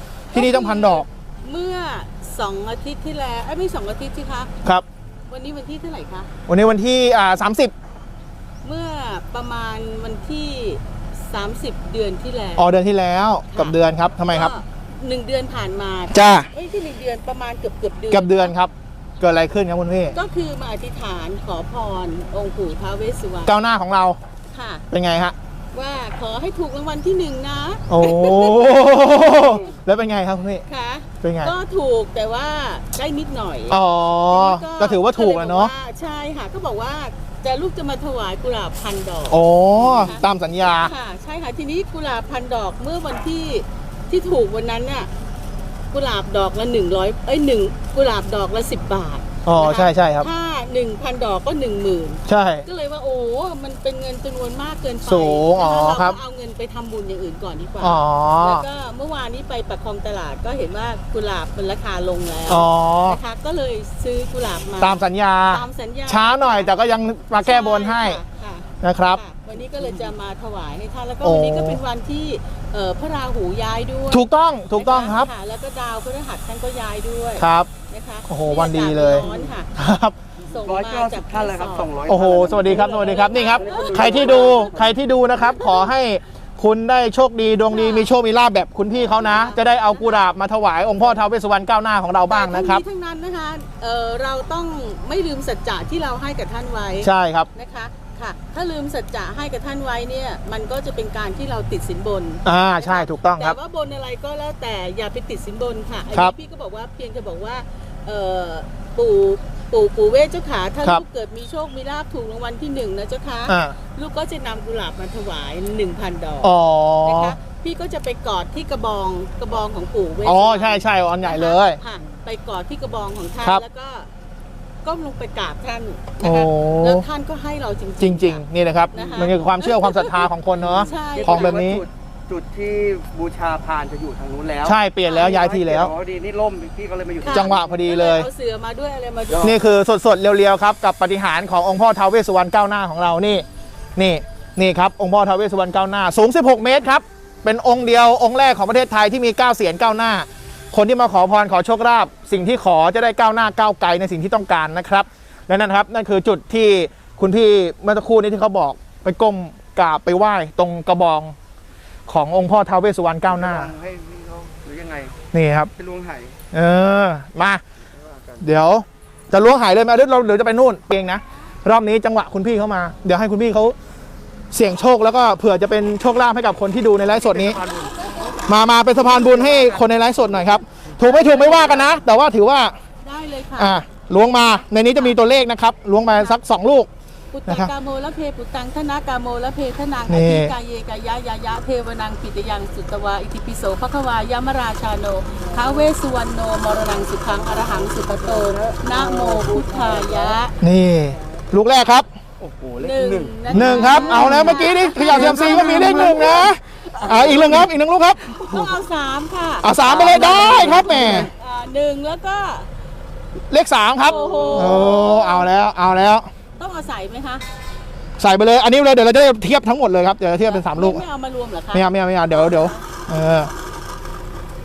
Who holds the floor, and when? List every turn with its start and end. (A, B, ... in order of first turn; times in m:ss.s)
0:00.3-0:04.5 A
0:00.3-0:01.1 B
0:05.3-0:06.3 A
0:06.5-0:07.7 B
0:08.6-0:12.7 A
0:12.6-0:14.5 B
0:13.5-0:13.8 A
0:14.3-0:18.5 A
0:16.1-0:16.5 B
0:18.1-0:20.2 B
0:20.1-0:23.5 A
0:23.5-0:24.2 B
0:24.5-0:24.8 A
0:24.9-0:25.4 B
0:25.7-0:29.5 A
0:27.9-0:30.6 B
0:30.7-0:45.1 A
0:31.2-0:31.5 B
0:33.7-0:35.7 B
0:39.3-0:40.9 B
0:45.9-1:19.7 A
0:49.4-0:50.3 B
0:52.3-0:52.7 B
0:55.1-0:56.2 B
0:57.8-0:58.7 B
1:02.5-1:03.2 B
1:04.8-1:08.2 B
1:08.8-1:09.2 B
1:11.2-1:11.8 B
1:14.1-1:15.3 B
1:17.4-1:17.7 B
1:18.3-1:20.2 B
1:19.2-1:19.5 C
1:20.5-1:21.9 A
1:20.5-1:25.0 C
1:22.1-1:32.8 B
1:22.7-1:24.7 A
1:25.4-1:25.9 A
1:27.7-1:28.1 A
1:29.1-1:30.2 A
1:32.3-2:04.1 A
1:37.0-1:37.5 B
1:42.4-1:43.6 B
1:53.5-1:53.8 B
1:56.4-1:57.4 B
2:00.2-2:01.8 B
2:04.8-2:11.6 A
2:06.2-2:07.0 B
2:08.0-2:11.8 B
2:08.9-2:09.2 C
2:10.7-2:17.6 C
2:14.6-2:15.9 B
2:15.0-2:15.4 A
2:17.2-2:19.6 A
2:17.3-2:18.3 B
2:19.4-2:23.4 B
2:24.0-2:41.4 B
2:42.1-2:43.7 B
2:43.3-2:45.2 C
2:45.3-2:45.7 B
2:45.8-2:46.4 C
2:46.5-2:47.6 B
2:48.0-2:48.4 C
2:48.4-2:53.8 B
2:54.5-2:57.6 B
2:57.2-2:58.0 C
2:58.5-3:02.8 B
2:59.1-2:59.8 C
3:03.0-3:03.8 A
3:03.6-3:06.9 B
3:07.3-3:20.6 A
3:10.1-3:10.5 B
3:18.2-3:20.4 C
3:20.6-3:22.1 B
3:22.4-3:26.4 C
3:22.8-3:27.7 A
3:23.5-3:28.4 B
3:28.2-3:32.7 A
3:29.6-3:31.3 B
3:30.1-3:31.0 C
3:33.5-3:36.3 B
3:34.0-3:35.5 A
3:34.2-3:34.7 C
3:36.6-3:37.4 A
3:38.2-3:41.0 B
3:40.4-3:42.8 A
3:41.7-3:43.5 B